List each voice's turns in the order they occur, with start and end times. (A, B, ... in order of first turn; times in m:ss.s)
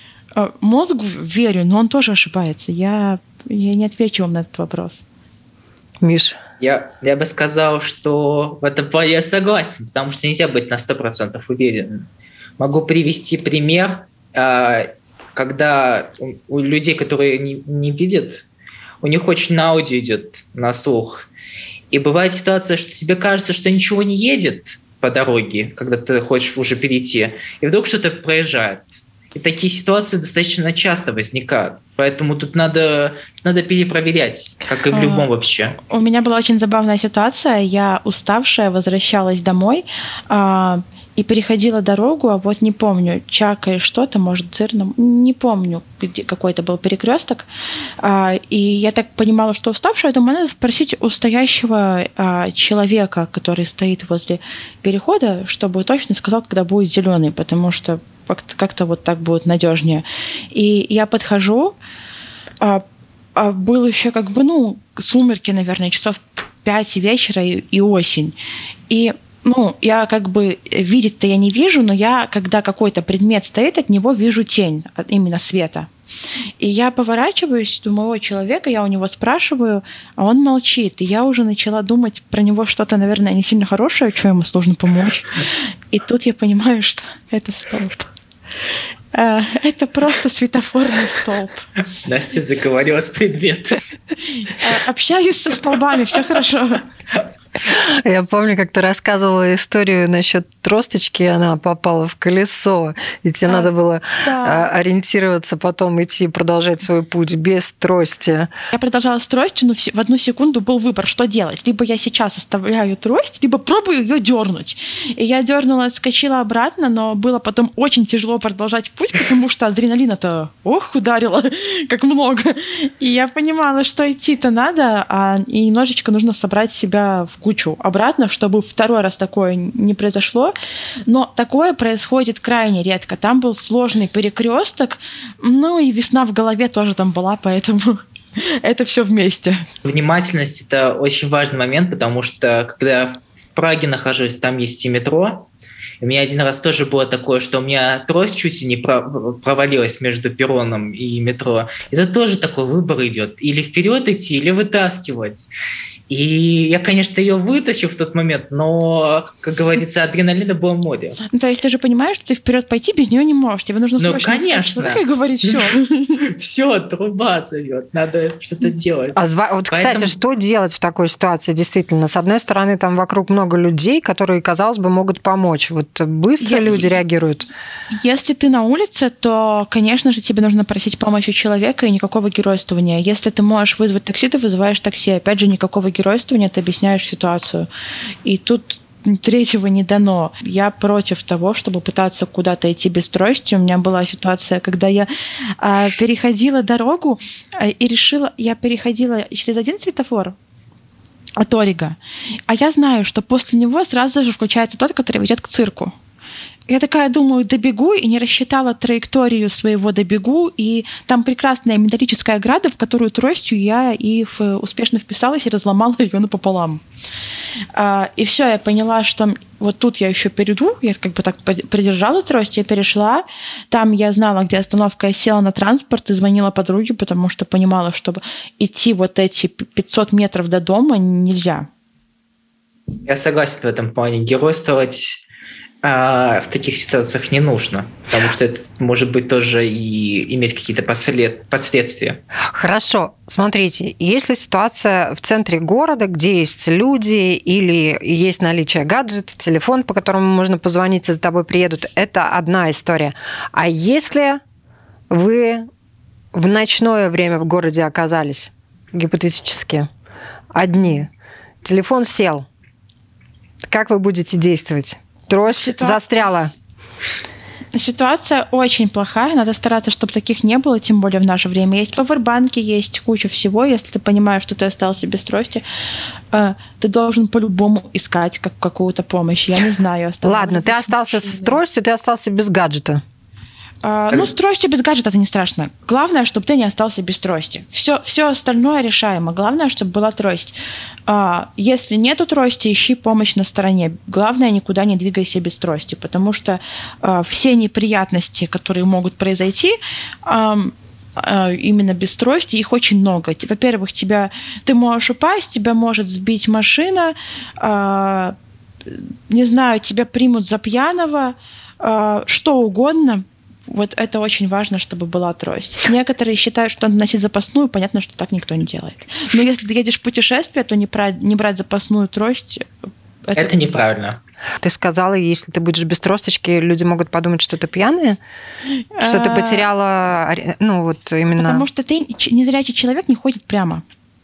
0:00.4-0:05.0 A
0:06.0-0:06.4 B
0:06.6-0:12.1 C
0:12.6-0:18.4 C
0:19.0-0:21.3 C
0:21.9-0:35.8 C
0:34.9-0:35.3 A
0:35.9-0:47.5 A
0:48.0-1:01.8 A
1:03.4-1:08.4 A
1:08.9-1:15.9 A
1:16.6-1:25.4 A
1:25.9-1:28.1 A
1:29.1-1:31.6 A
1:32.1-1:33.8 C
1:34.5-1:36.8 A
1:37.7-1:48.5 B
1:43.5-1:44.7 A
1:48.7-2:10.6 A
2:11.1-2:19.6 A
2:19.8-2:25.5 C
2:26.0-2:35.5 C
2:36.1-2:41.2 C
2:41.3-2:45.9 A
2:44.0-2:45.6 C
2:46.2-2:50.2 C
2:49.2-2:57.5 B
2:56.4-2:56.9 A
2:58.0-3:07.7 A
3:08.2-3:15.1 A
3:15.6-3:20.4 A
3:21.4-3:22.0 A
3:22.5-3:26.0 A
3:26.7-3:36.8 A
3:37.7-3:51.7 A
3:53.1-3:55.2 C
3:55.8-4:02.2 C
4:02.5-4:14.4 B
4:15.1-4:15.7 B
4:16.3-4:19.9 B
4:20.5-4:21.1 B
4:21.6-4:22.5 B
4:23.6-4:26.5 B
4:25.5-4:26.5 A
4:27.8-4:35.6 A
4:36.3-4:41.6 A
4:40.2-4:43.0 B
4:43.8-4:50.6 A
4:51.1-5:22.7 A
5:23.4-5:24.2 C
5:24.6-5:28.2 B
5:29.0-5:29.7 A
5:29.0-5:31.6 B
5:31.4-5:33.8 A